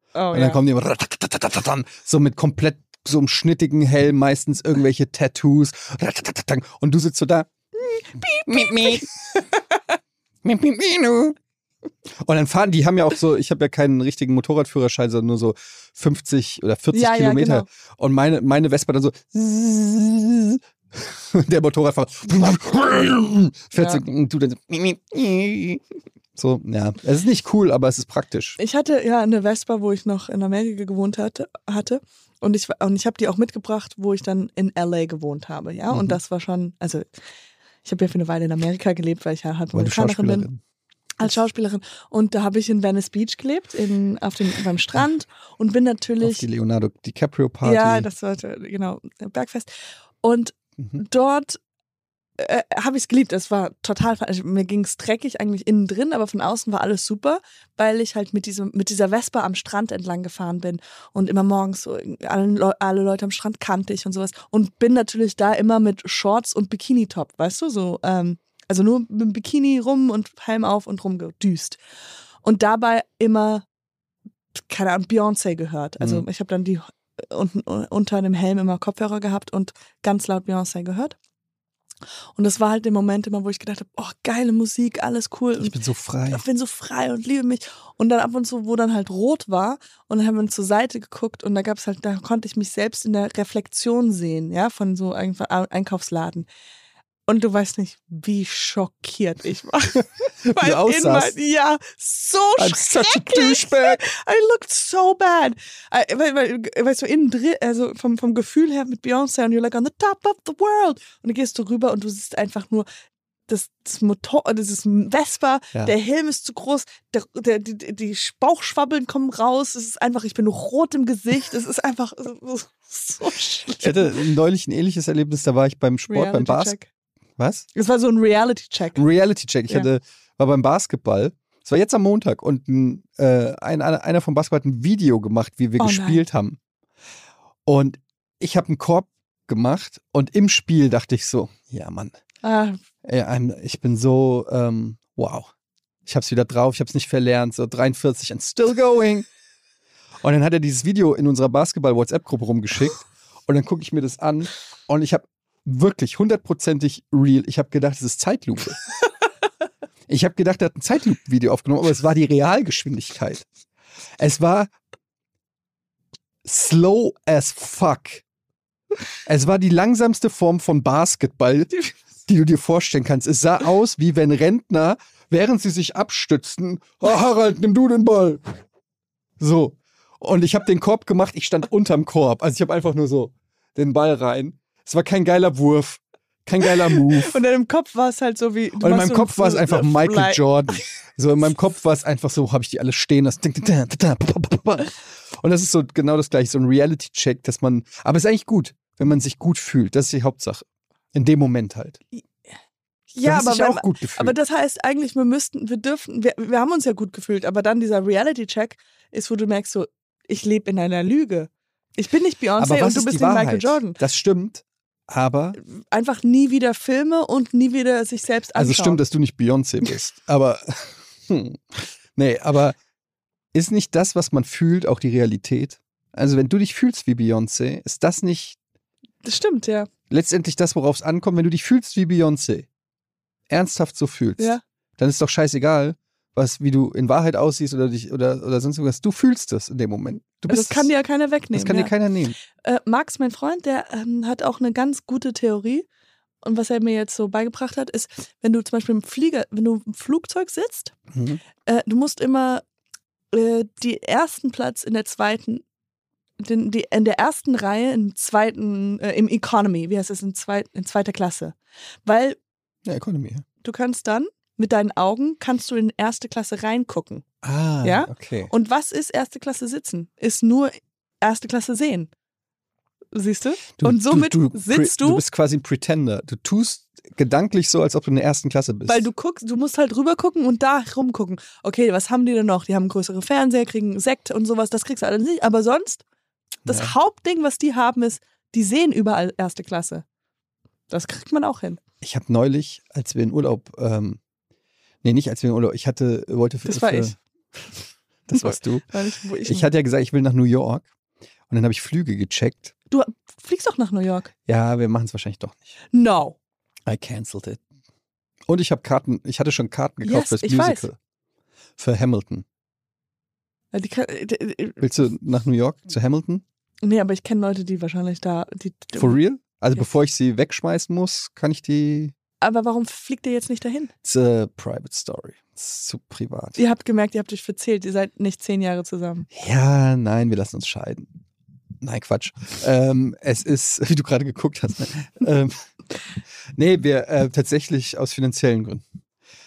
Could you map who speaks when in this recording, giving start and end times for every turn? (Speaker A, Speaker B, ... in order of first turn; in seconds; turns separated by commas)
Speaker A: 0.1-0.6, Speaker B: 0.3-7.5, Speaker A: 7.9-9.4, Speaker B: 8.5-9.1, Speaker B: 10.4-11.4, Speaker B: 12.2-25.8, Speaker A: 16.9-17.7, Speaker A: 23.8-24.0, Speaker B: 26.4-28.6, Speaker A: 28.6-37.0, Speaker B: 35.9-36.2, Speaker A: 37.8-40.5, Speaker B: 39.7-40.6, Speaker A: 41.2-46.5, Speaker B: 46.2-48.1, Speaker A: 47.6-49.7, Speaker A: 50.2-51.6, Speaker A: 52.4-71.8, Speaker A: 72.4-73.7, Speaker A: 74.5-81.2, Speaker B: 76.0-76.2, Speaker A: 82.4-85.7, Speaker B: 85.6-86.4, Speaker A: 86.3-96.5, Speaker A: 97.3-112.9, Speaker B: 100.4-101.4, Speaker B: 102.6-104.0, Speaker A: 113.5-124.2, Speaker B: 123.8-126.8, Speaker A: 126.1-126.9, Speaker B: 127.4-127.7, Speaker A: 127.8-129.0, Speaker B: 128.9-136.6, Speaker A: 135.8-136.2, Speaker B: 137.7-142.2, Speaker A: 142.4-142.8, Speaker B: 143.0-145.5, Speaker B: 146.1-149.3, Speaker B: 150.2-158.8, Speaker B: 160.1-163.4, Speaker B: 164.2-164.7, Speaker B: 166.4-168.2, Speaker B: 169.3-171.7, Speaker B: 172.3-178.5, Speaker B: 179.4-187.4, Speaker A: 186.9-190.4, Speaker B: 188.8-202.0, Speaker A: 203.1-214.0, Speaker B: 203.2-204.3, Speaker B: 212.6-215.6, Speaker A: 215.6-219.0, Speaker B: 218.6-222.8, Speaker B: 223.5-228.6, Speaker A: 229.2-229.9, Speaker B: 230.1-232.7, Speaker B: 233.5-240.9, Speaker A: 240.5-241.9, Speaker B: 241.5-242.4, Speaker A: 242.5-245.9, Speaker A: 246.4-250.9, Speaker B: 251.1-251.4, Speaker A: 251.7-252.6, Speaker A: 253.3-255.6, Speaker A: 256.4-262.4, Speaker B: 262.9-263.4, Speaker A: 263.6-267.2, Speaker B: 267.4-268.5, Speaker A: 267.8-272.1, Speaker A: 273.1-275.2, Speaker B: 273.8-279.1, Speaker A: 278.9-286.0, Speaker A: 286.6-290.1, Speaker B: 286.7-286.9, Speaker A: 290.9-291.8, Speaker B: 292.0-294.2, Speaker B: 295.0-297.2, Speaker A: 296.6-297.2, Speaker B: 298.3-298.9, Speaker A: 298.4-299.7, Speaker B: 299.4-300.9, Speaker B: 301.5-302.7, Speaker A: 302.9-304.3, Speaker B: 304.5-305.7, Speaker A: 305.9-306.4, Speaker B: 306.9-307.6, Speaker B: 308.5-311.0, Speaker A: 310.0-310.9, Speaker B: 311.8-312.4, Speaker A: 313.7-314.8, Speaker B: 314.8-316.4, Speaker A: 316.8-319.2, Speaker B: 318.9-322.1, Speaker A: 322.4-323.9, Speaker B: 324.0-326.6, Speaker A: 326.6-329.3, Speaker B: 329.3-331.1, Speaker B: 331.8-335.6, Speaker B: 336.6-338.8